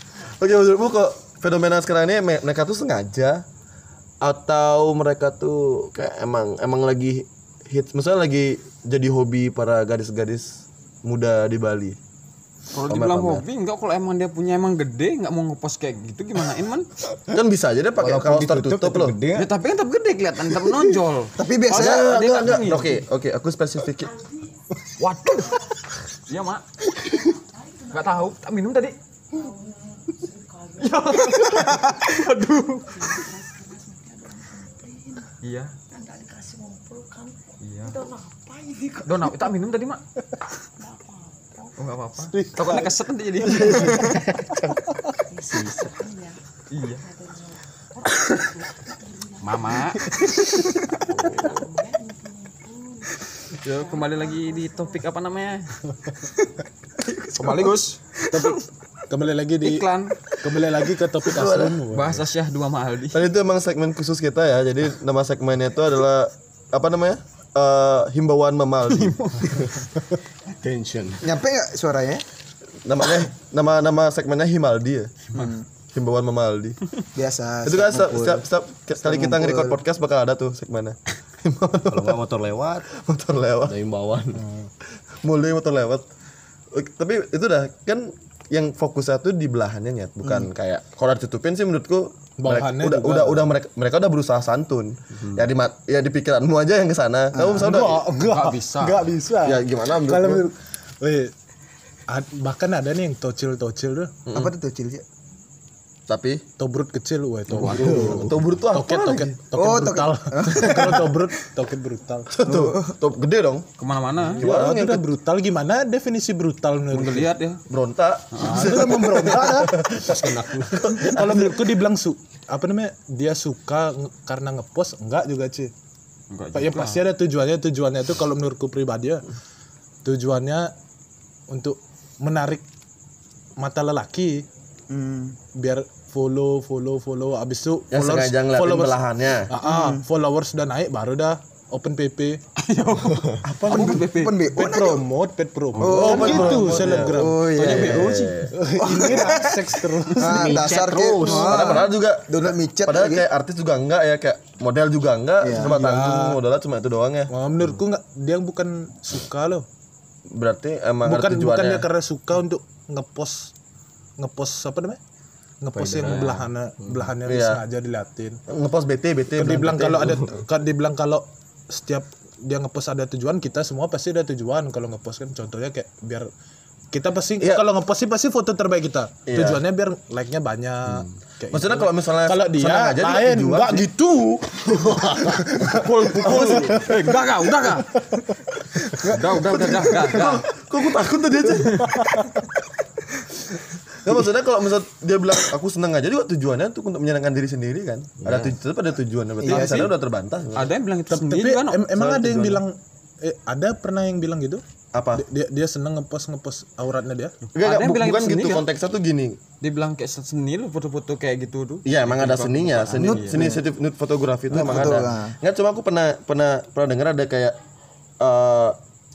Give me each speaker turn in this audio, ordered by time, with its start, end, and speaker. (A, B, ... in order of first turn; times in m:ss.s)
0:00.4-0:03.4 A
0:04.2-0:12.0 A
0:12.7-0:16.9 B
0:12.8-0:13.4 A
0:17.3-0:19.2 A
0:18.0-0:19.5 C
0:19.3-0:23.0 B
0:21.4-0:22.1 D
0:21.7-0:24.2 A
0:25.0-0:25.6 B
0:26.2-0:26.6 B
0:27.8-0:29.0 B
0:30.6-0:33.4 B
0:31.5-0:31.9 D
0:35.4-0:36.0 B
0:37.6-0:38.2 B
0:39.0-0:40.0 B
0:41.8-0:44.2 B
0:42.3-0:45.6 E
0:45.5-0:45.9 D
0:46.7-0:47.1 B
0:49.4-0:51.8 B
0:50.0-0:50.6 E
0:53.6-0:55.8 B
0:57.2-0:58.4 B
0:57.4-0:57.7 D
0:58.3-0:59.8 E
0:59.6-1:00.3 B
1:00.4-1:02.2 E
1:01.2-1:01.8 A
1:01.9-1:03.3 B
1:03.1-1:09.2 A
1:08.9-1:09.7 B
1:10.6-1:11.3 C
1:11.2-1:12.2 D
1:12.8-1:15.3 A
1:15.3-1:15.6 D
1:15.9-1:16.8 A
1:17.1-1:18.4 D
1:17.6-1:22.2 A
1:19.0-1:19.8 D
1:21.9-1:22.9 C
1:22.9-1:23.8 A
1:23.6-1:24.4 C
1:24.3-1:24.7 E
1:25.2-1:26.0 A
1:26.7-1:38.1 A
1:32.4-1:33.5 E
1:35.2-1:35.4 C
1:37.3-1:37.7 D
1:37.6-1:41.3 E
1:38.1-1:39.1 B
1:39.4-1:40.4 A
1:42.1-1:44.2 E
1:44.3-1:44.5 A
1:44.3-1:45.0 D
1:46.1-1:46.4 A
1:46.6-1:52.3 E
1:47.5-1:48.3 C
1:47.6-1:48.0 B
1:47.6-1:49.4 A
1:49.5-1:51.0 D
1:52.3-1:53.7 A
1:52.5-1:52.8 D
1:53.8-1:54.4 B
1:54.4-1:57.3 E
1:54.4-1:55.1 A
1:56.9-1:57.6 B
1:57.7-2:00.1 A
1:58.3-1:58.8 B
1:58.4-2:05.7 E
2:00.0-2:00.8 C
2:00.7-2:01.7 A
2:06.3-2:07.0 B
2:06.5-2:09.2 E
2:10.0-2:10.7 E
2:11.5-2:12.6 E
2:13.6-2:14.4 E
2:14.9-2:15.4 D
2:15.6-2:22.4 E
2:17.9-2:19.5 A
2:19.6-2:20.0 D
2:22.6-2:24.4 B
2:23.5-2:24.0 A
2:23.6-2:25.0 D
2:24.6-2:27.4 E
2:25.8-2:28.1 D
2:25.8-2:28.5 A
2:26.3-2:26.9 C
2:27.5-2:28.4 B
2:27.8-2:28.5 C
2:28.5-2:30.7 E
2:28.8-2:33.2 D
2:30.2-2:31.8 C
2:31.2-2:37.3 A
2:35.4-2:35.7 D
2:35.5-2:36.4 E
2:37.3-2:39.6 E
2:40.3-2:41.9 A
2:41.0-2:43.5 E
2:44.2-2:45.0 E
2:45.6-2:48.4 E
2:45.7-2:47.1 C
2:46.0-2:46.3 B
2:47.2-2:47.6 A
2:48.5-2:50.2 A
2:49.3-2:56.3 E
2:56.9-3:07.0 E
2:59.3-2:59.6 A
3:01.5-3:03.9 A
3:04.8-3:05.4 A
3:04.9-3:05.3 C
3:05.6-3:07.9 B
3:06.2-3:06.9 A
3:07.7-3:10.3 E
3:09.0-3:10.4 B
3:09.4-3:11.9 A
3:11.6-3:12.5 E
3:11.6-3:12.0 B
3:14.0-3:20.7 A
3:18.2-3:18.5 C
3:19.4-3:19.8 D
3:19.5-3:19.9 B
3:19.5-3:19.9 E
3:20.5-3:21.8 B
3:21.1-3:24.6 E
3:21.9-3:22.6 A
3:24.9-3:25.2 A
3:25.1-3:27.3 E
3:27.4-3:28.7 B
3:27.5-3:29.4 A
3:29.6-3:33.5 B
3:31.8-3:37.6 A
3:33.0-3:33.6 D
3:34.5-3:35.4 D
3:38.2-3:38.8 A